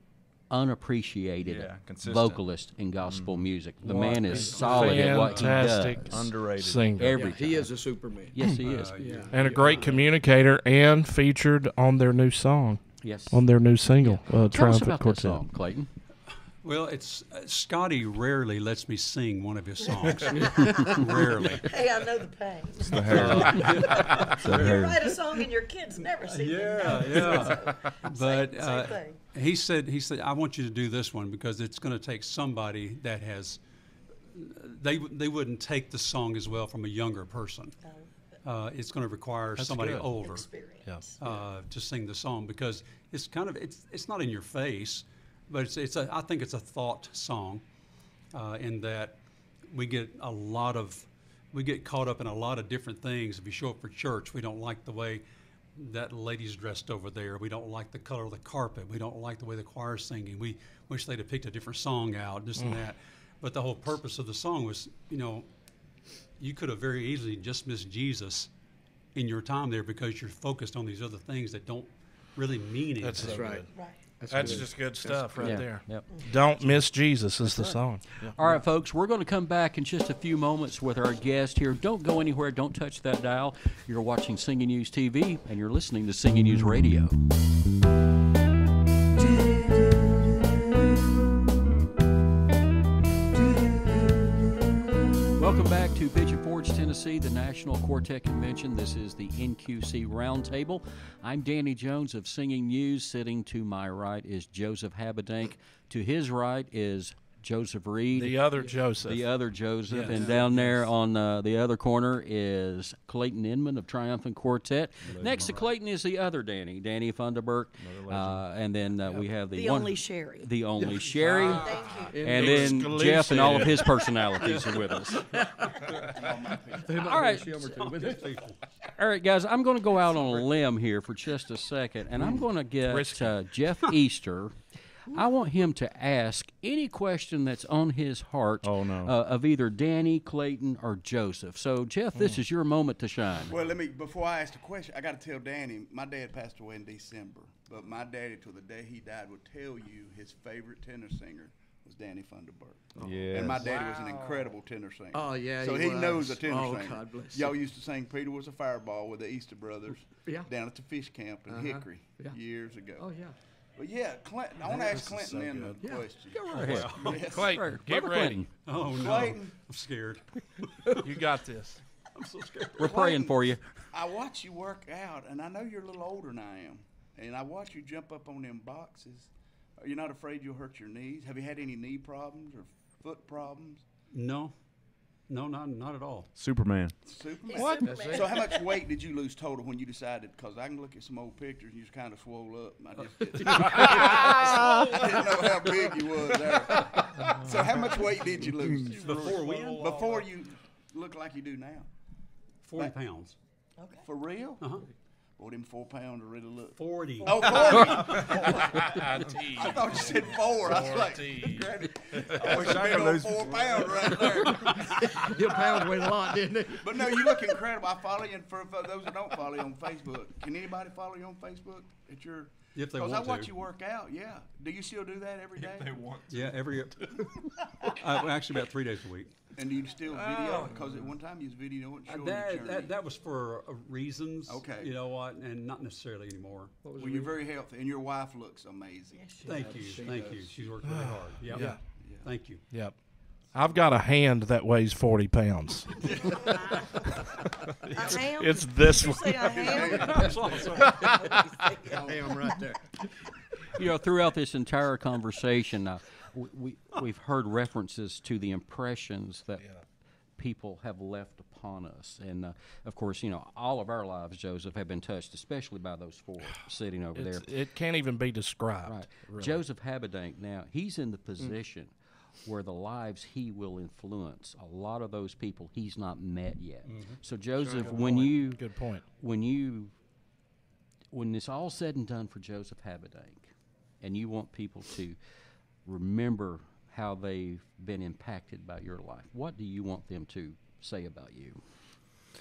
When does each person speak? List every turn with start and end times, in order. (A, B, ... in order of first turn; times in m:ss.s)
0:00.5-0:06.3 A
0:01.4-0:03.5 B
0:03.8-0:07.2 C
0:03.9-0:05.2 D
0:04.6-0:05.5 E
0:06.1-0:07.0 B
0:07.0-0:09.3 A
0:07.1-0:08.4 D
0:08.4-0:08.7 C
0:08.6-0:10.1 E
0:08.9-0:10.0 D
0:09.3-0:15.5 C
0:13.0-0:15.9 A
0:16.6-0:21.7 E
0:20.3-0:20.7 F
0:20.5-0:21.0 D
0:21.6-0:29.2 F
0:22.9-0:25.0 B
0:23.1-0:24.5 E
0:26.2-0:33.6 E
0:34.3-0:37.8 E
0:38.4-0:40.5 E
0:39.6-0:40.1 C
0:40.0-0:41.4 F
0:41.2-0:47.6 E
0:48.3-0:55.2 E
0:55.8-1:05.4 E
1:02.6-1:02.9 C
1:06.4-1:08.5 E
1:09.2-1:13.6 E
1:13.0-1:13.7 C
1:13.2-1:15.8 D
1:13.7-1:14.0 F
1:14.3-1:18.4 C
1:15.4-1:16.3 A
1:17.4-1:27.2 A
1:35.4-2:05.2 A
1:48.1-1:49.3 C
1:48.6-1:48.9 D
1:49.9-1:50.9 C
1:50.2-1:50.4 D
1:55.0-1:55.6 B
1:57.8-1:58.5 B
1:59.5-2:00.5 F
2:00.8-2:03.6 D
2:01.2-2:04.1 C
2:01.6-2:02.2 F
2:05.3-2:06.2 D
2:06.1-2:07.3 G
2:06.8-2:08.5 D
2:07.0-2:07.6 A
2:07.8-2:08.6 E
2:09.0-2:23.6 A
2:12.2-2:13.5 C
2:18.6-2:19.1 B
2:22.2-2:22.4 C
2:23.5-2:43.1 G
2:33.0-2:34.5 D
2:33.0-2:33.8 B
2:35.1-2:37.6 D
2:40.2-2:40.5 D
2:41.5-2:42.4 D
2:43.0-2:43.4 D
2:43.8-2:47.7 G
2:44.6-2:45.8 C
2:45.8-2:46.1 D
2:46.3-2:48.5 A
2:46.5-2:47.2 E
2:47.1-2:48.6 C
2:48.7-2:51.1 E
2:48.8-2:49.6 G
2:51.0-2:51.8 C
2:52.2-2:52.9 E
2:52.8-2:53.7 A
2:52.8-3:03.8 G
3:04.1-3:04.6 E
3:05.3-3:06.3 E
3:06.4-3:07.0 B
3:07.0-3:21.9 G
3:07.4-3:08.7 F
3:07.6-3:08.4 D
3:13.2-3:13.8 D
3:13.9-3:14.4 C
3:14.7-3:15.0 F
3:16.8-3:17.0 D
3:18.6-3:19.1 B
3:19.0-3:19.9 E
3:22.6-3:23.4 E
3:23.8-3:24.1 F
3:24.0-3:24.8 G
3:24.6-3:24.9 E
3:25.4-3:34.9 G
3:26.8-3:28.3 E
3:27.8-3:28.2 A
3:28.1-3:32.8 C
3:32.4-3:33.6 B
3:34.1-3:37.6 D
3:36.8-3:46.1 G
3:42.8-3:43.5 E
3:45.6-3:46.5 B
3:46.3-3:49.4 E
3:49.5-3:52.9 G
3:50.1-3:50.7 C
3:52.1-3:56.8 E
3:54.5-3:54.9 G
3:56.8-3:57.4 D
3:57.0-4:00.6 G
3:59.1-3:59.7 F
3:59.4-4:02.7 E
3:59.4-4:00.3 D
4:00.8-4:01.8 C
4:02.0-4:02.3 G
4:02.6-4:06.6 C
4:07.8-4:09.8 C
4:08.0-4:10.6 F
4:09.4-4:10.9 G
4:10.1-4:10.8 E
4:10.8-4:11.3 C
4:11.2-4:13.1 D
4:13.7-4:19.8 A
4:20.4-4:27.5 A
4:27.2-4:29.6 C
4:28.8-4:40.0 A
4:36.8-4:37.2 E
4:37.6-4:39.0 C
4:41.1-4:45.2 A
4:45.8-4:51.6 A